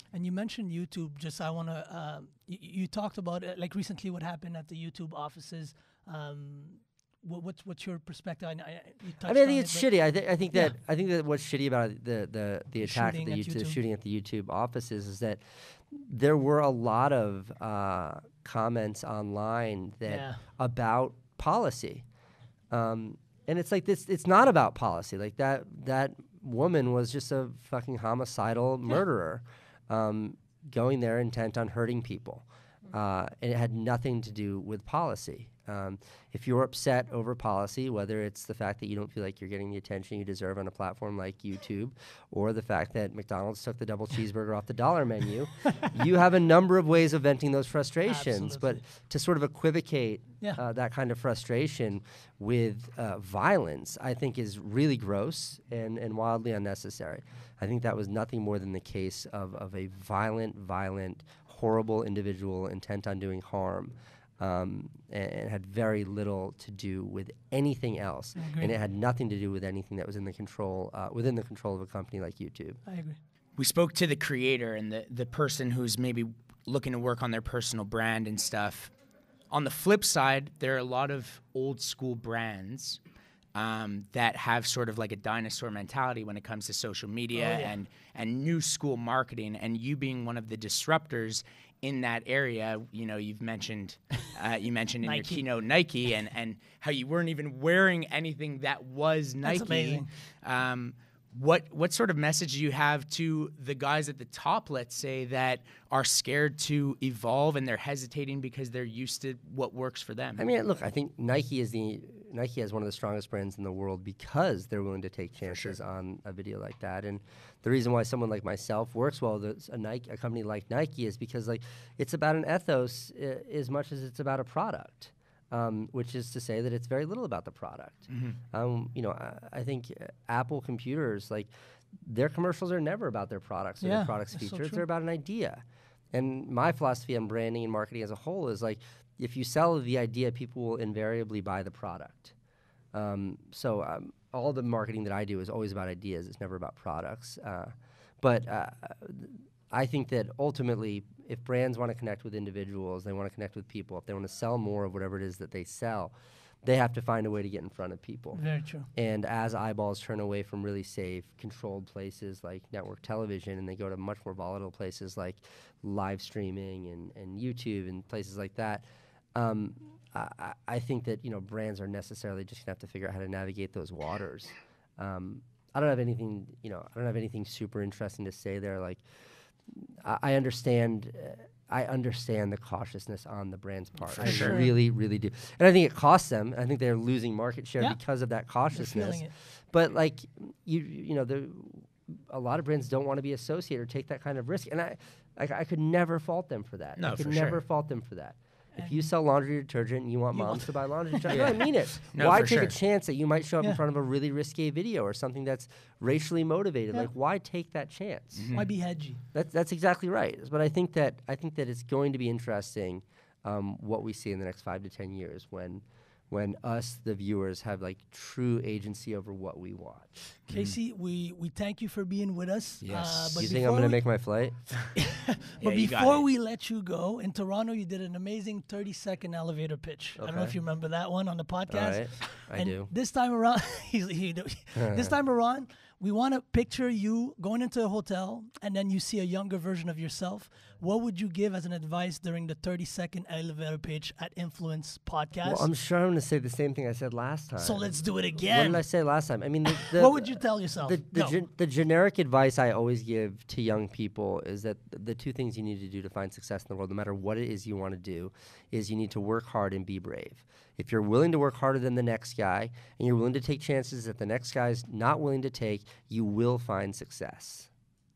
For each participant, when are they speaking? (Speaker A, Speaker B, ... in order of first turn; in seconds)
Speaker A: 0.1-9.9, 10.5-10.8, 12.8-13.8, 20.1-20.4, 48.0-48.8, 68.4-68.7, 72.8-73.2, 87.3-87.7, 95.0-95.4, 99.4-100.1, 133.8-134.8, 158.3-158.9, 184.2-184.7, 188.7-189.3, 198.7-199.0, 200.3-201.4, 208.5-209.2, 220.5-224.0, 224.9-245.7, 247.6-248.8, 249.7-251.3
Speaker B: 9.2-22.0, 22.7-72.8, 110.4-142.3, 142.9-179.0, 179.7-208.5, 209.3-220.4, 223.4-224.6, 230.2-230.6, 231.7-232.9, 234.7-235.1, 245.4-247.9, 248.5-267.7
Speaker C: 73.6-78.9, 79.5-83.0, 83.5-110.5, 115.5-115.8, 128.1-128.4, 184.2-184.6, 197.0-197.6, 201.3-202.8, 208.3-208.7, 220.5-220.8, 222.8-223.5, 225.6-226.2